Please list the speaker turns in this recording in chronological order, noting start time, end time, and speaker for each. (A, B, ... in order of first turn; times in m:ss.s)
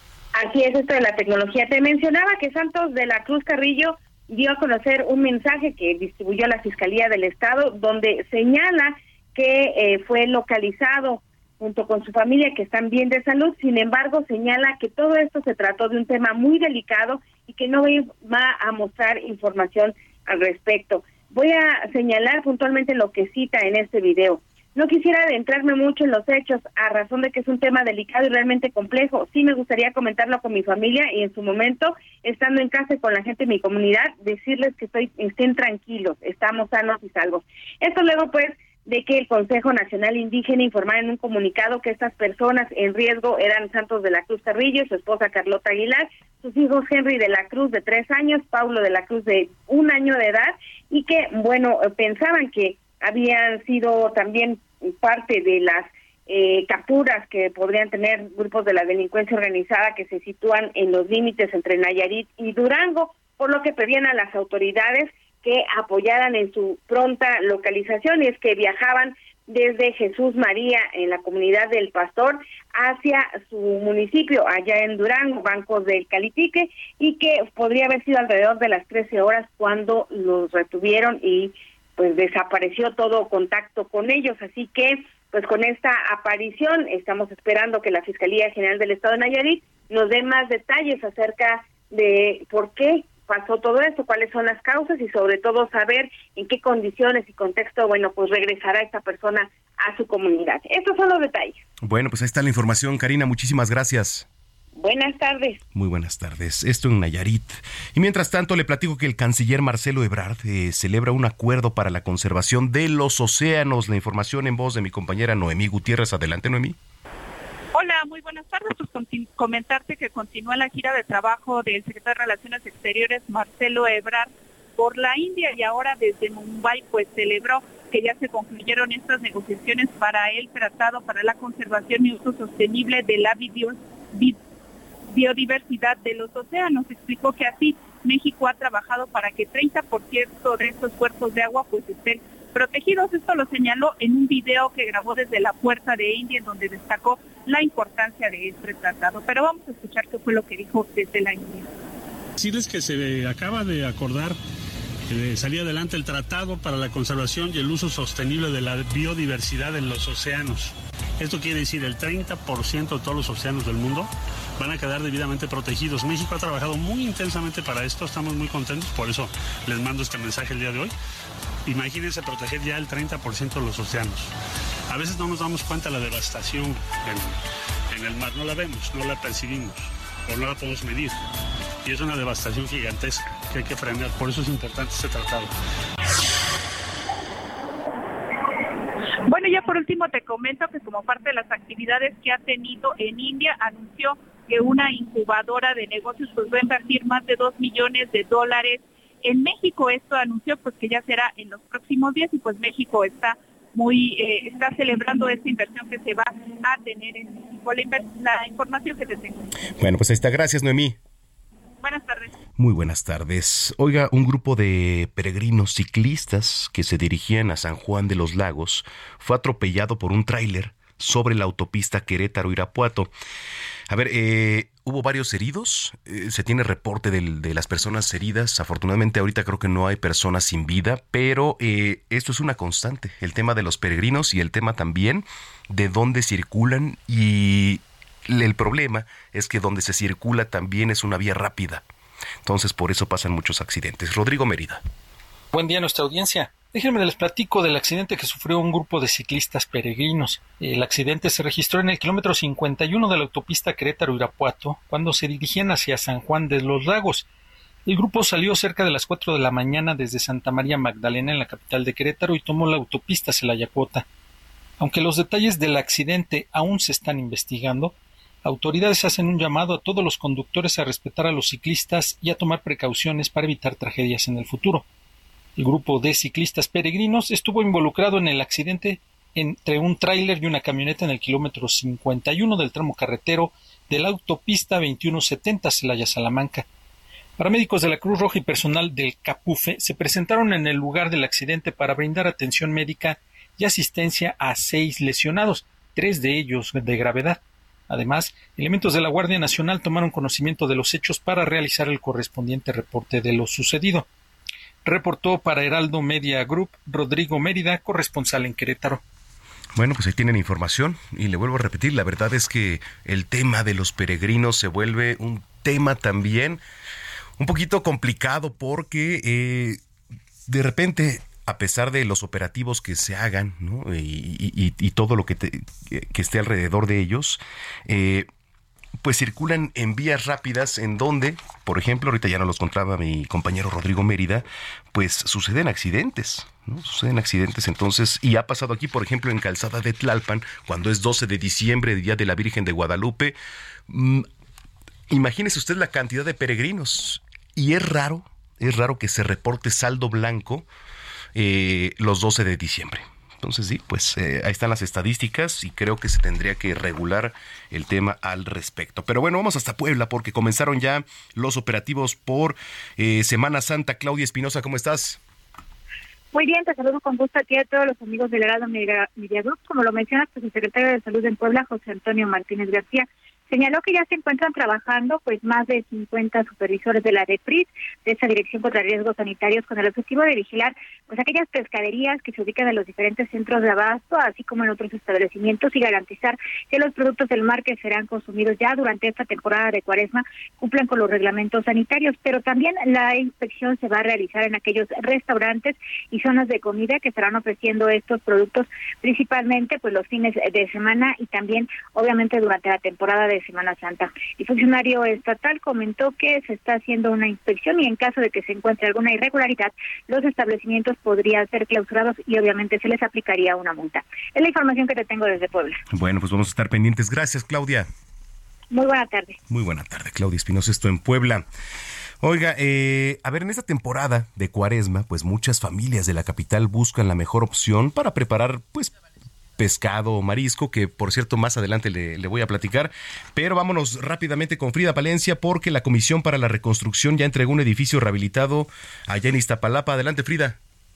0:00.4-1:41.6 A
1:41.8-1:44.3 B
1:44.8-1:45.6 A
1:45.8-1:56.8 B
1:57.7-2:14.4 C
2:15.1-2:31.7 C
2:32.4-2:34.4 D
2:35.1-2:50.9 D
2:51.7-2:54.3 D
2:54.9-2:57.4 D
2:57.9-3:01.2 D
3:01.8-3:05.5 D
3:09.3-3:29.5 C
3:29.8-3:31.0 B
3:31.8-3:32.3 C
3:32.6-3:43.1 B
3:43.9-4:01.8 B
4:02.4-4:04.8 B
4:05.5-4:17.3 E
4:17.9-4:24.1 E
4:24.8-4:34.9 E
4:35.6-4:46.7 E
4:47.4-5:04.1 E
5:04.8-5:09.0 E
5:09.8-5:16.6 B
5:17.4-5:19.8 B
5:20.5-5:28.3 B
5:29.0-5:43.4 B
5:43.9-5:44.3 B
5:45.1-5:50.7 B
5:51.4-6:05.2 B
6:06.3-6:55.8 F
6:55.9-6:57.9 B
6:58.7-6:59.4 F
6:59.5-7:01.5 B
7:02.2-7:08.9 B
7:09.6-7:20.6 B